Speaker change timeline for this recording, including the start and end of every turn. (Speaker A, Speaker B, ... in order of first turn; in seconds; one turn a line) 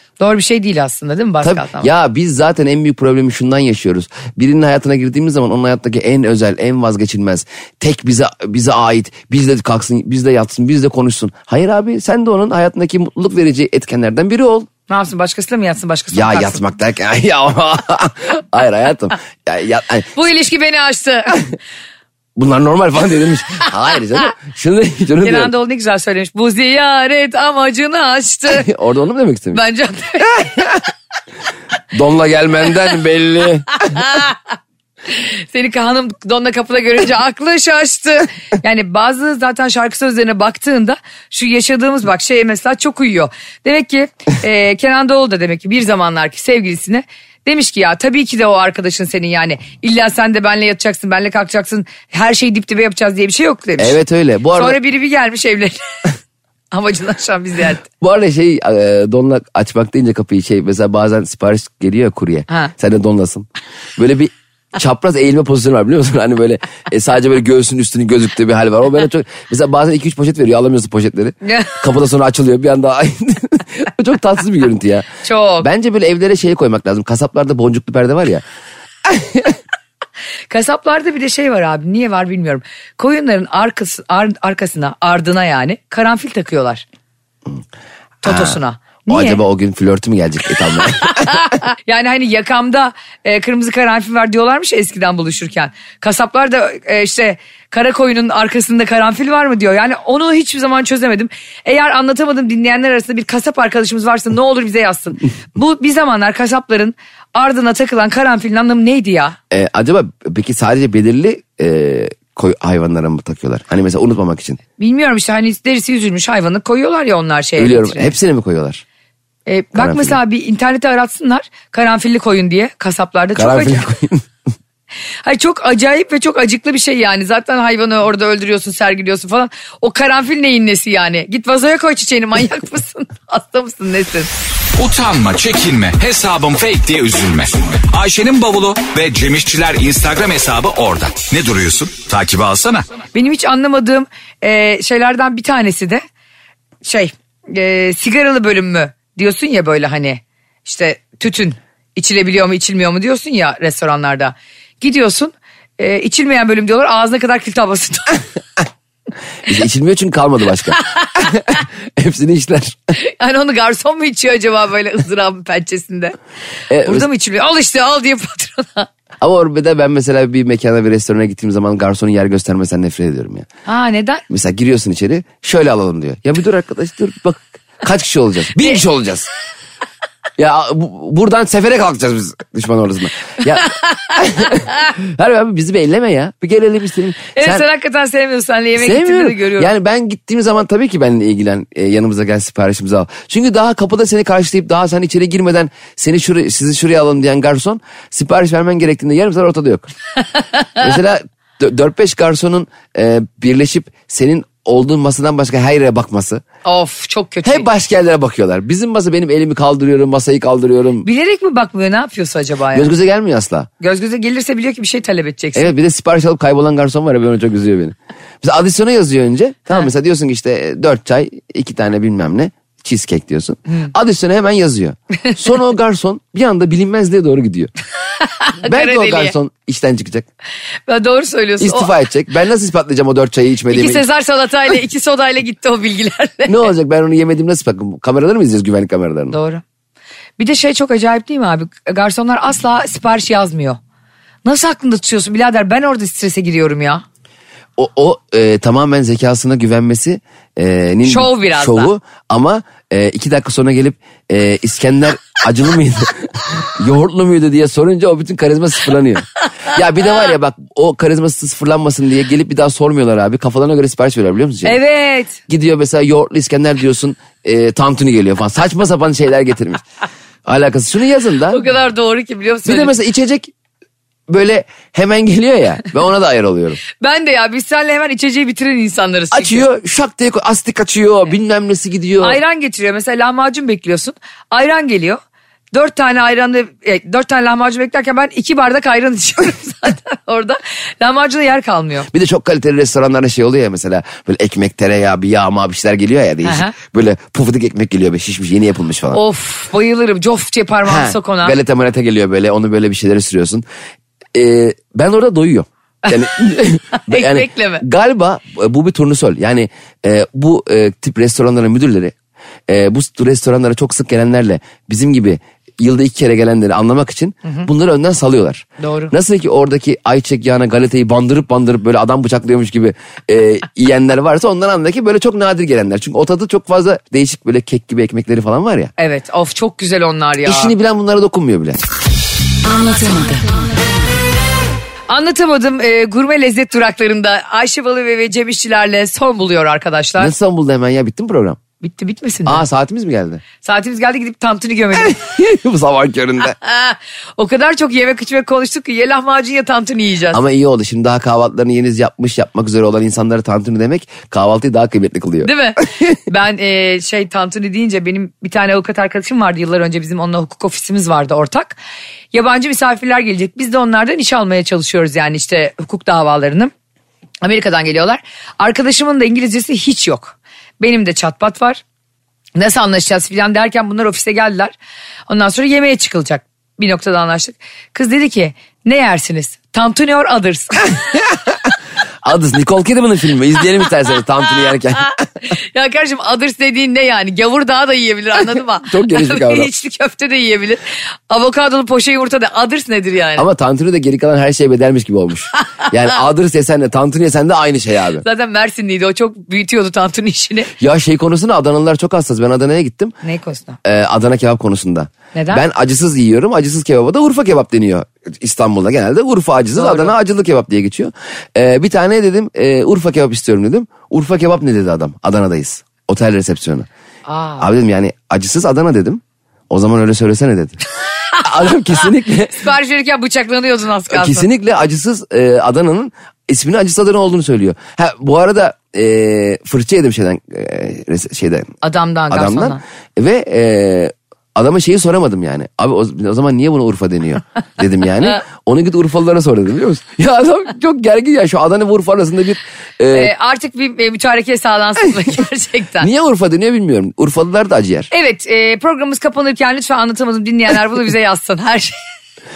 Speaker A: 0.2-1.9
Speaker B: 1.4-14.7
Speaker A: 14.9-16.6
Speaker B: 16.1-20.1
Speaker A: 20.1-21.4
Speaker B: 22.4-25.5
Speaker A: 25.2-28.7
Speaker B: 28.5-29.6
Speaker A: 29.5-30.8
Speaker B: 31.9-34.0
Speaker A: 33.9-34.4
Speaker A: 35.1-54.0
Speaker B: 53.8-54.8
Speaker A: 54.5-56.1
Speaker A: 56.7-57.9
Speaker B: 58.0-75.1
Speaker A: 71.4-71.8
Speaker A: 75.2-75.7
Speaker B: 75.6-78.4
Speaker B: 79.0-79.6
Speaker A: 80.5-86.8
Speaker A: 88.2-89.4
Speaker B: 88.2-88.6
Speaker B: 89.1-91.5
Speaker A: 91.0-109.4
Speaker B: 109.5-114.6
Speaker A: 114.8-118.1
Speaker B: 117.6-118.8
Speaker A: 119.5-123.9
Speaker B: 119.8-120.2
Speaker B: 123.3-124.2
Speaker A: 125.2-134.3
Speaker C: 134.8-142.8
Speaker A: 143.1-146.0
Speaker A: 146.8-158.2
Speaker B: 159.5-162.8
Speaker A: 160.9-161.2
Speaker A: 162.9-166.1
Speaker B: 166.7-167.1
Speaker A: 166.8-168.9
Speaker B: 169.2-173.5
Speaker A: 173.7-174.2
Speaker B: 174.3-179.3
Speaker A: 178.6-178.8
Speaker B: 180.4-187.6
Speaker A: 187.3-189.7
Speaker B: 188.8-199.9
Speaker B: 200.8-206.4
Speaker A: 206.6-207.7
Speaker B: 207.4-211.1
Speaker A: 211.0-212.9
Speaker B: 212.7-213.7
Speaker A: 213.8-215.7
Speaker B: 215.5-227.7
Speaker A: 228.2-229.3
Speaker B: 228.6-230.3
Speaker A: 230.9-231.9
Speaker B: 231.6-234.0
Speaker A: 233.7-236.7
Speaker B: 236.5-239.3
Speaker A: 239.3-239.6
Speaker A: 240.4-243.8
Speaker A: 244.4-247.0
Speaker B: 247.8-264.8
Speaker A: 251.0-251.9
Speaker A: 264.6-265.4
Speaker B: 265.5-269.8
Speaker B: 270.5-271.6
Speaker A: 271.5-272.9
Speaker B: 272.6-273.5
Speaker B: 274.3-276.8
Speaker A: 277.0-279.6
Speaker B: 279.3-282.4
Speaker A: 282.2-285.2
Speaker A: 285.7-292.1
Speaker B: 292.1-299.2
Speaker A: 296.4-296.8
Speaker A: 299.1-301.5
Speaker B: 300.9-303.6
Speaker B: 304.3-312.1
Speaker A: 306.9-307.8
Speaker B: 312.7-328.9
Speaker A: 318.8-319.1
Speaker A: 329.0-330.7
Speaker B: 330.4-331.8
Speaker A: 335.1-340.3
Speaker B: 340.2-341.6
Speaker A: 341.8-342.6
Speaker B: 342.5-343.4
Speaker A: 343.6-345.2
Speaker B: 345.0-346.6
Speaker A: 346.4-350.4
Speaker B: 350.3-356.0
Speaker A: 355.4-361.8
Speaker A: 362.3-366.7
Speaker A: 367.4-371.8
Speaker A: 372.6-374.7
Speaker A: 375.3-381.0
Speaker B: 382.2-385.1
Speaker A: 385.5-393.5
Speaker B: 388.8-389.7
Speaker B: 393.4-398.2
Speaker A: 395.6-395.9
Speaker A: 398.2-400.7
Speaker B: 400.8-403.1
Speaker A: 403.2-403.8
Speaker B: 403.8-416.9
Speaker A: 405.4-405.6
Speaker A: 409.8-410.1
Speaker A: 417.2-417.7
Speaker B: 417.6-420.8
Speaker B: 421.4-422.6
Speaker A: 422.6-424.5
Speaker B: 424.1-431.7
Speaker A: 431.8-432.8
Speaker B: 432.3-443.3
Speaker A: 443.1-446.1
Speaker B: 446.0-448.1
Speaker A: 448.1-452.0